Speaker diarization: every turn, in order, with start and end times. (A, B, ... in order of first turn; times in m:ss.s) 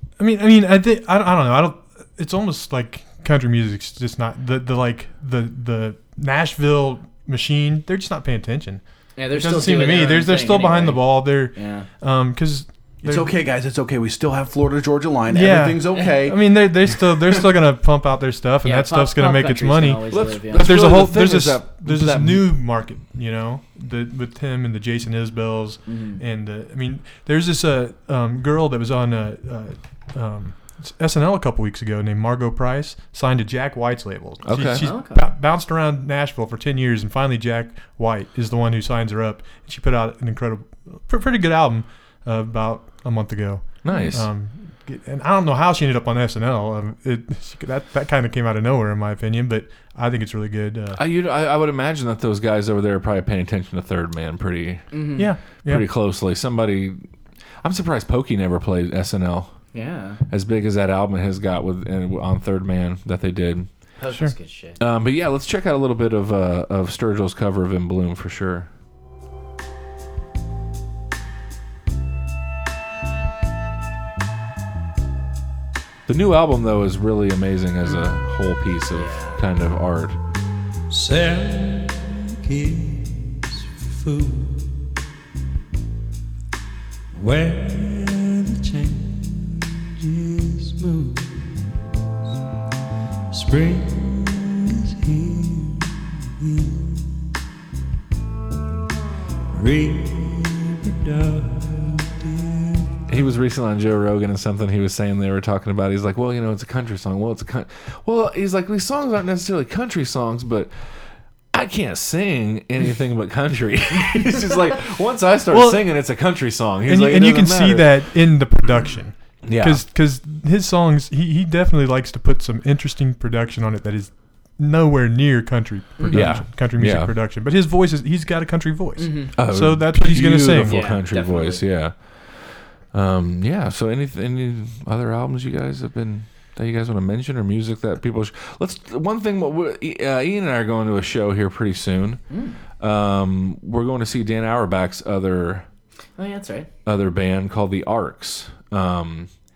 0:00.2-0:13.3 A
0:09.2-0:11.9 B
0:13.0-0:17.4 C
0:15.3-0:51.0 A
0:18.6-0:20.8 B
0:20.1-0:22.5 D
0:25.8-0:26.2 B
0:34.4-0:34.9 D
0:34.8-0:35.3 B
0:43.8-0:44.3 D
0:50.9-0:54.9 D
0:54.9-0:55.3 B
0:55.2-0:55.8 A
0:55.6-0:57.0 D
0:57.6-0:59.5 D
0:59.7-1:00.2 B
1:00.3-1:03.7 D
1:04.0-1:04.8 B
1:04.8-1:08.7 D
1:16.1-1:20.2 D
1:18.9-1:19.4 B
1:20.9-1:24.9 E
1:27.1-1:31.7 E
1:33.3-1:37.2 E
1:39.5-1:43.2 E
1:43.1-1:50.7 D
1:51.5-1:58.1 D
1:55.5-1:55.8 A
1:56.8-2:11.0 A
1:59.4-1:59.8 D
2:06.1-2:07.1 D
2:09.0-2:09.3 B
2:09.4-2:22.2 D
2:10.6-2:11.6 B
2:22.3-2:22.6 B
2:22.8-2:25.7 D
2:26.2-2:26.7 B
2:26.8-2:29.3 D